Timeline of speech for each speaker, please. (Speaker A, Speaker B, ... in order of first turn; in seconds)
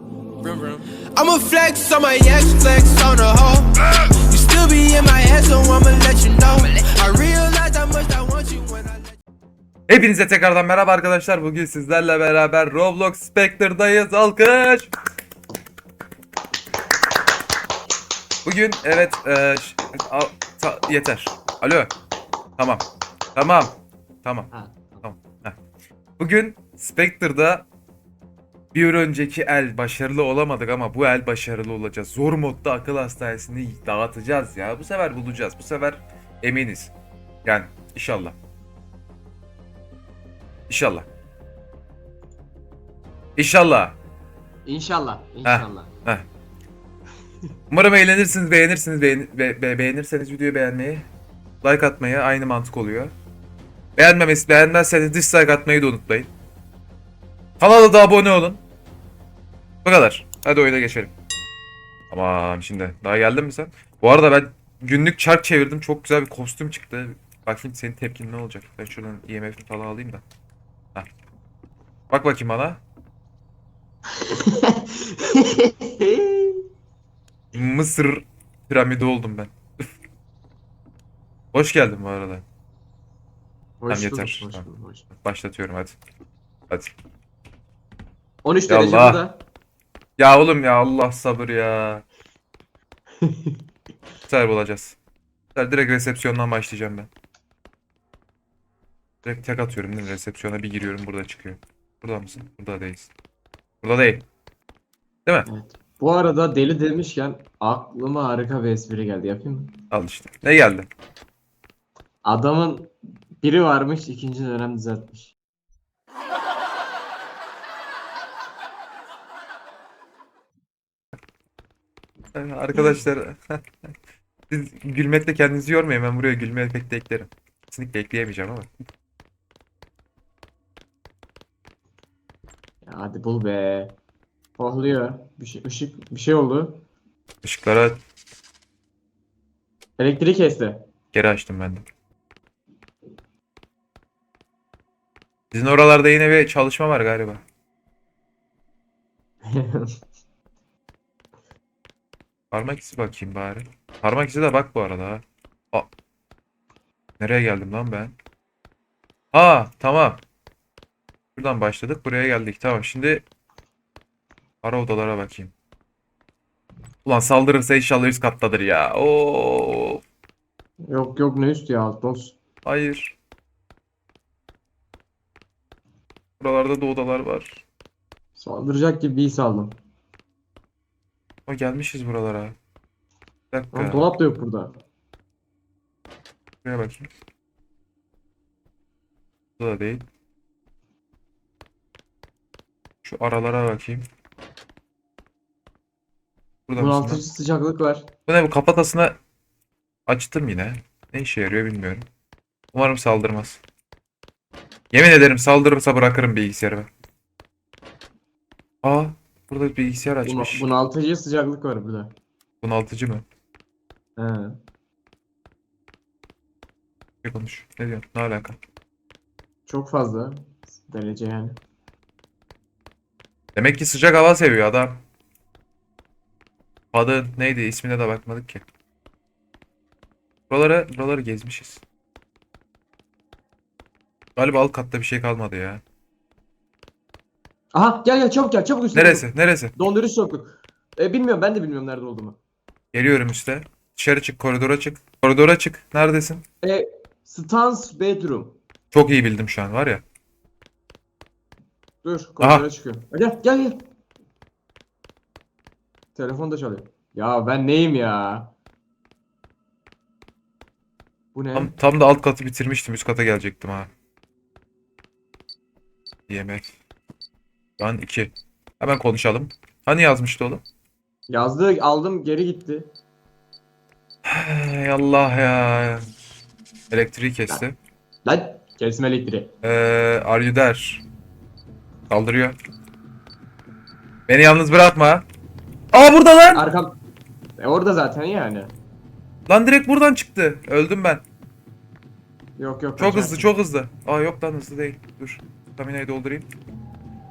Speaker A: 0.4-9.2
Speaker B: 9.9-14.9, 18.4-21.9, 22.6-24.5, 25.0-25.6, 26.2-27.7, 28.7-36.9, 37.5-38.4, 40.7-41.1, 43.4-44.0, 45.5-46.3, 47.7-51.1, 51.6-53.1, 54.0-56.3, 57.6-58.6, 59.9-61.1, 62.1-70.2, 72.1-72.8, 77.5-79.5, 81.5-82.4, 83.9-84.7, 85.2-86.0, 88.7-89.2, 90.2-92.0, 94.3-95.0, 95.5-97.1, 99.2-103.1, 103.8-104.3, 109.9-110.9, 122.3-123.6, 124.5-128.7, 137.4-138.0, 141.1-141.8, 145.5-147.4, 152.5-155.9, 157.2-158.1, 159.3-160.2, 161.4-163.2, 164.6-165.5, 167.1-170.0, 172.7-173.2, 176.4-177.6, 181.5-182.6, 183.5-184.0, 186.6-187.1, 189.6-190.1, 193.0-194.0, 196.7-197.2, 198.3-199.2, 200.1-202.1, 202.7-203.6, 204.9-206.9, 208.8-210.7, 212.6-213.2, 217.2-218.6, 223.6-225.0, 226.9-228.6, 230.5-231.8, 234.4-235.8, 238.9-239.8, 242.9-246.4, 248.9-250.0, 252.4-252.7, 261.5-263.9, 266.3-266.7, 267.8-270.6, 274.2-276.0, 276.9-277.8, 279.6-281.0, 282.1-282.6, 284.3-285.2, 285.9-286.7, 289.5-291.2, 293.0-296.5
Speaker C: 24.5-25.1, 44.6-45.9, 74.3-76.6, 83.8-85.1, 88.4-89.4, 93.2-93.6, 105.5-109.8, 112.2-115.3, 132.8-133.9, 134.6-136.8, 140.0-140.9, 149.4-149.9, 170.9-172.4, 178.3-179.8, 183.7-184.8, 196.8-198.1, 210.2-212.2, 214.2-214.6, 219.7-221.6, 237.7-242.4, 246.6-248.6, 252.0-253.8, 256.1-258.5, 261.3-261.7, 271.3-272.9, 278.2-279.5, 286.5-286.9, 287.6-288.7, 292.6-293.5